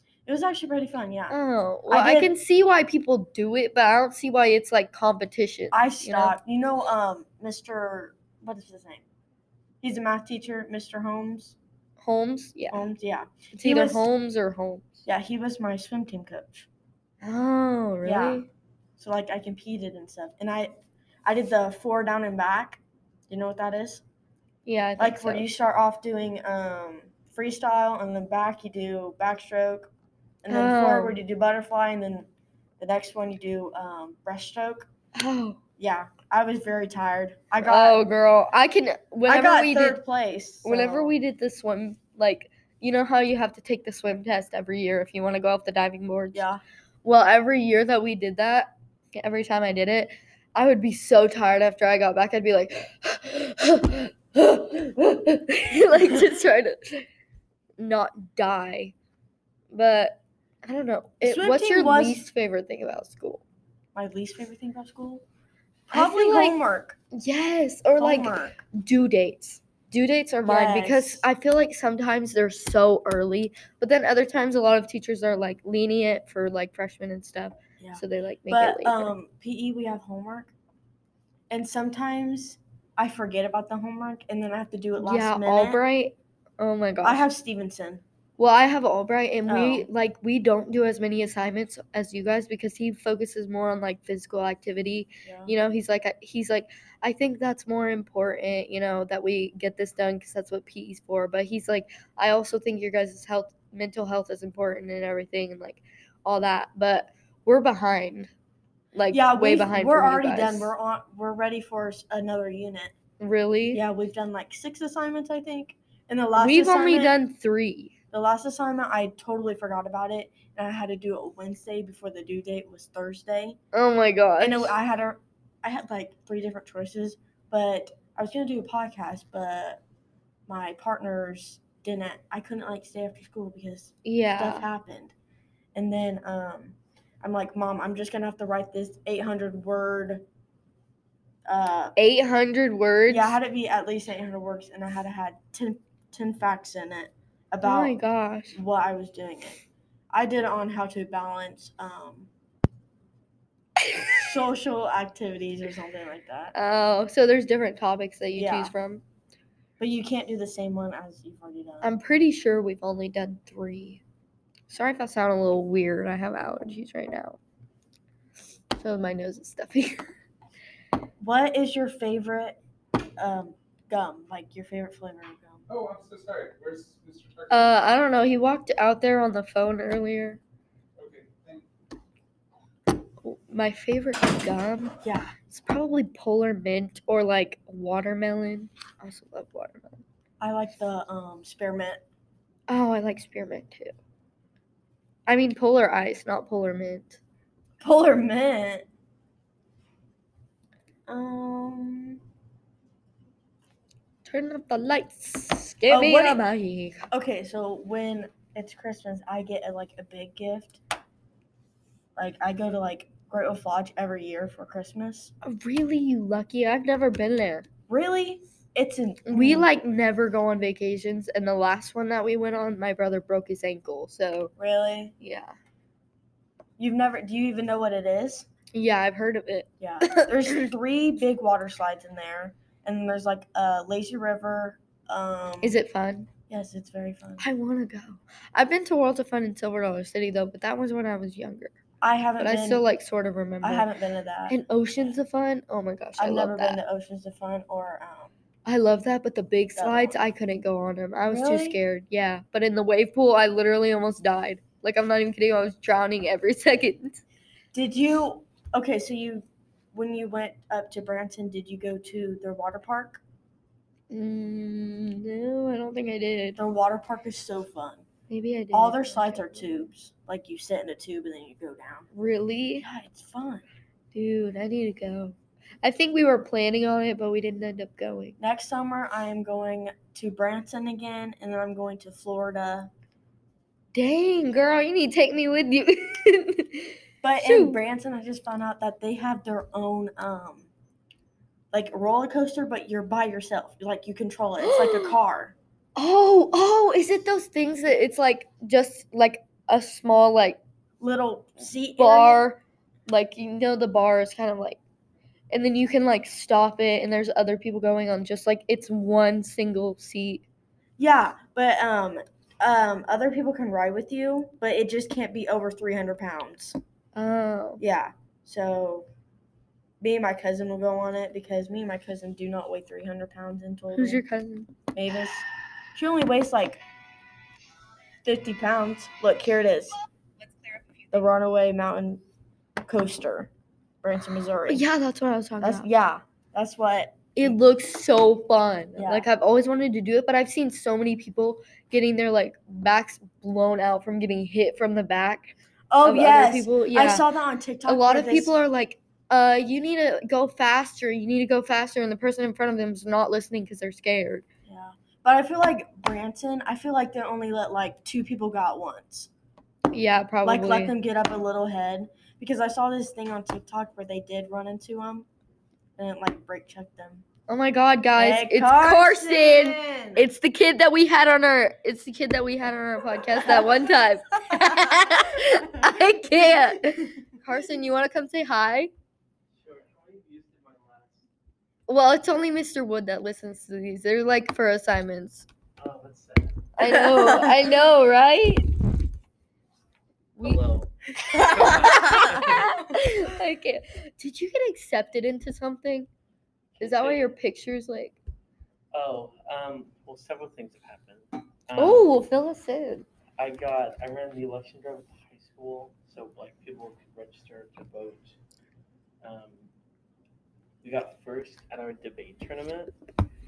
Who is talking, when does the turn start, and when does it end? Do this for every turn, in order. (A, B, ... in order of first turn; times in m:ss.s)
0:00.2-0:01.4 A
0:01.3-0:06.4 B
0:01.9-0:02.3 A
0:05.7-0:09.0 A
0:09.8-0:11.6 A
0:12.0-0:12.8 B
0:12.7-0:14.1 A
0:13.5-0:15.0 B
0:15.0-0:16.7 A
0:17.2-0:18.5 B
0:18.0-0:18.4 A
0:19.0-0:20.7 A
0:21.2-0:24.0 A
0:24.6-0:25.4 B
0:25.0-0:29.9 A
0:30.4-0:32.3 A
0:30.5-0:31.2 B
0:32.8-0:34.9 A
0:35.1-0:35.6 B
0:35.8-0:38.0 A
0:37.6-0:40.0 B
0:39.3-0:41.1 A
0:40.6-0:46.4 B
0:46.3-0:46.6 A
0:47.0-0:57.0 B
0:57.8-0:58.9 B
0:59.7-1:03.4 B
1:01.2-1:02.2 A
1:03.9-1:05.2 A
1:05.9-1:07.0 A
1:05.9-1:06.6 B
1:07.1-1:19.1 B
1:08.0-1:08.6 A
1:10.4-1:11.2 A
1:17.8-1:20.5 A
1:21.5-1:25.8 A
1:25.0-1:27.2 B
1:27.0-1:28.0 A
1:28.4-1:48.3 B
1:29.5-1:29.9 A
1:35.2-1:35.5 A
1:48.9-1:50.7 B
1:49.1-1:52.9 A
1:53.2-1:53.8 B
1:53.7-1:57.2 A
1:56.4-1:57.9 B
1:58.1-2:03.6 A
2:03.7-2:04.7 B
2:04.4-2:09.8 A
2:10.5-2:15.1 A
2:14.0-2:14.6 B
2:15.7-2:20.2 A
2:21.4-2:21.9 A
2:22.0-2:23.4 B
2:23.1-2:28.0 A
2:27.6-2:28.6 B
2:28.5-2:29.6 A
2:30.1-2:32.3 A
2:34.1-2:36.5 A
2:36.5-2:39.0 B
2:38.3-2:38.7 A
2:39.8-2:41.9 A
2:41.8-2:44.0 B
2:44.7-2:47.4 B
2:48.8-2:50.1 B
2:51.2-2:52.6 A
2:53.2-2:55.6 A
2:55.7-2:57.5 C
2:57.5-3:00.4 B
3:01.0-3:01.6 C
3:03.2-3:10.0 B
3:05.0-3:05.3 A
3:10.4-3:12.0 A
3:12.7-3:13.9 B
3:15.3-3:17.2 B
3:17.8-3:18.8 A
3:21.1-3:22.2 A
3:24.2-3:27.0 B
3:25.9-3:26.4 A
3:27.1-3:30.8 A
3:32.2-3:35.3 A
3:35.4-3:37.6 B
3:37.9-3:39.7 A
3:39.3-3:44.5 B
3:44.6-3:45.1 A
3:45.2-3:45.5 B
3:46.8-3:48.5 A
3:48.7-3:50.3 B
3:49.8-3:55.8 A
3:55.6-3:56.3 B
3:56.5-3:57.4 A
3:57.4-4:01.7 B
4:02.0-4:02.8 A
4:02.4-4:03.8 B
4:03.6-4:04.5 A
4:04.5-4:06.8 B
4:06.2-4:08.4 A
4:08.6-4:17.2 B
4:09.8-4:10.2 A
4:11.3-4:11.8 A
4:17.7-4:23.2 A
4:24.1-4:26.6 B
4:26.6-4:28.0 A
4:28.3-4:29.9 B
4:28.7-4:32.1 A
4:32.1-4:32.8 B
4:32.8-4:33.6 A
4:34.1-4:38.4 B
4:38.4-4:42.9 A
4:43.9-4:47.8 B
4:47.2-4:50.7 A
4:51.7-4:55.5 A
4:54.6-4:55.2 B
4:56.0-5:00.6 B
5:01.0-5:02.4 A
5:02.0-5:04.8 B
5:05.5-5:10.4 B
5:11.0-5:16.8 A
5:17.1-5:17.8 B
5:17.8-5:19.1 A
5:20.0-5:24.2 A
5:23.9-5:24.7 B
5:24.9-5:26.8 A
5:28.2-5:30.0 A
5:31.1-5:32.2 A
5:32.8-5:33.5 A
5:34.0-5:34.8 A
5:34.7-5:35.9 B
5:35.6-5:37.6 A
5:37.4-5:45.5 B
5:39.0-5:39.3 A
5:45.9-5:48.5 A
5:46.0-5:47.2 B
5:47.9-5:54.4 B
5:54.7-5:59.3 A
5:59.9-6:00.9 B
6:00.4-6:05.2 A
6:06.0-6:07.2 A
6:07.5-6:18.9 B
6:08.2-6:10.2 A
6:13.4-6:13.7 A
6:14.5-6:16.0 A
6:19.6-6:21.2 D
6:21.9-6:25.5 B
6:25.8-6:26.6 D
6:26.8-6:28.6 B
6:26.8-6:27.6 A
6:30.4-6:32.6 D
6:31.3-6:32.4 A
6:31.6-6:36.1 B
6:36.8-6:37.2 D
6:36.8-6:38.2 B
6:38.9-6:42.1 D
6:41.8-6:43.0 B
6:43.4-6:48.3 D
6:49.2-6:49.7 D
6:50.8-6:52.9 D